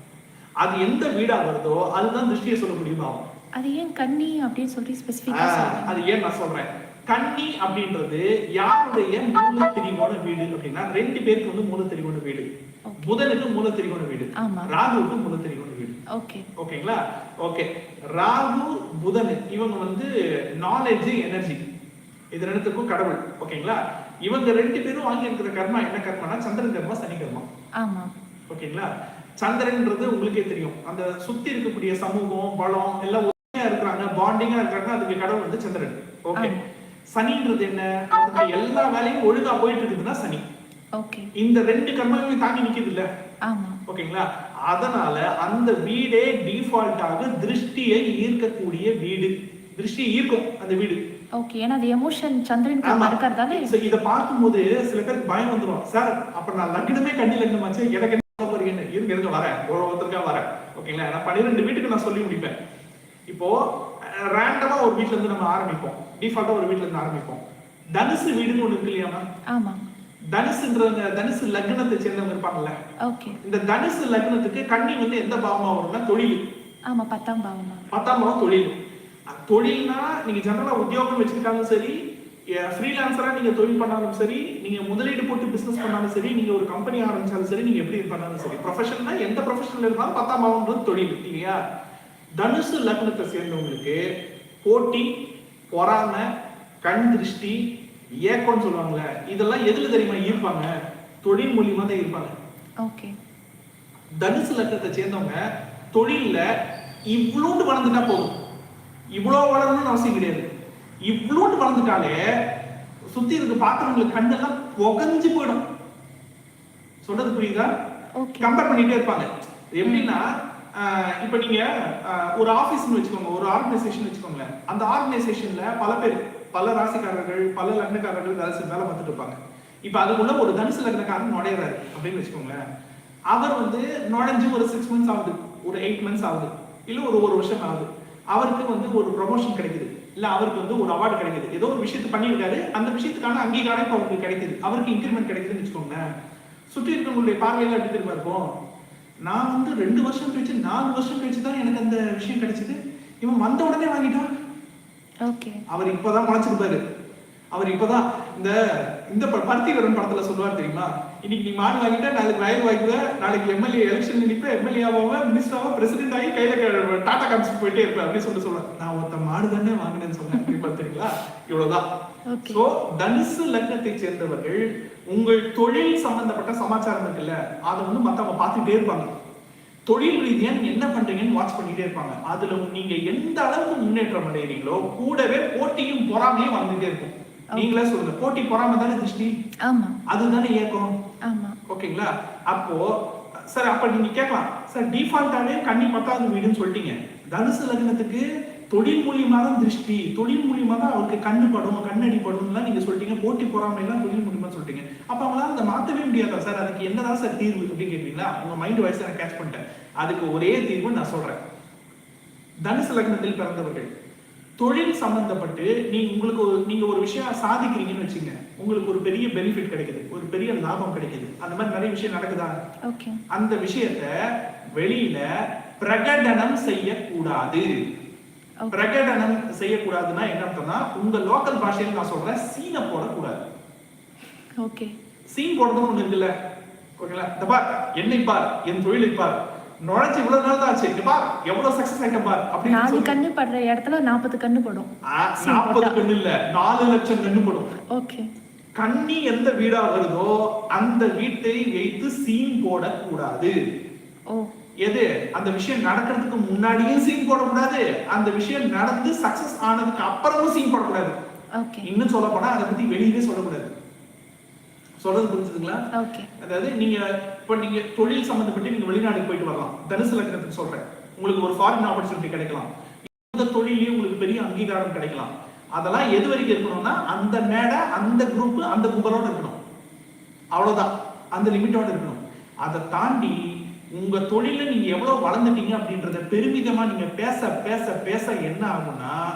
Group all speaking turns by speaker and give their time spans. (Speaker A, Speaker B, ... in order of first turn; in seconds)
Speaker A: 0.6-3.2, 5.3-12.5, 13.0-16.0, 16.6-21.6, 22.3-27.5, 28.5-36.5, 37.1-40.5, 41.4-43.1, 43.9-51.0, 52.8-62.6, 63.3-67.4, 68.0-69.2, 70.3-72.8, 73.4-76.4, 77.9-78.8, 79.3-82.0, 82.5-91.6, 92.4-94.0, 94.6-95.1, 95.7-96.3, 96.8-97.6, 98.2-102.3, 104.2-105.4, 105.9-106.5, 107.1-108.3, 109.2-110.5, 111.1-112.2, 113.1-115.6, 117.0-117.7, 118.4-132.6, 133.3-146.0, 146.7-148.5, 149.3-154.3, 155.7-156.8, 157.5-158.6, 159.1-171.8, 172.5-179.1, 179.9-189.3, 190.1-190.9, 191.7-211.4, 212.7-213.9, 214.6-222.6, 223.3-224.1, 224.8-225.2, 225.8-227.7, 228.7-233.5, 235.3-236.3, 237.0-243.2, 245.1-247.7, 248.8-253.5, 254.8-261.2, 261.9-263.7, 265.0-265.8, 266.4-279.6, 280.5-283.4, 283.9-289.2
Speaker B: 3.6-6.0, 12.9-13.2, 14.3-14.7, 16.1-16.5, 27.8-28.1, 36.4-36.6, 41.0-41.3, 43.5-43.8, 51.4-53.8, 69.5-69.8, 73.0-73.4, 76.9-77.9, 102.8-103.2, 118.2-118.7, 119.8-120.1, 155.2-155.6, 170.3-170.6, 172.3-172.6, 189.7-190.0, 191.3-191.6, 222.9-223.2, 234.6-234.9, 242.7-246.0, 247.9-248.3, 261.6-261.9, 265.9-266.3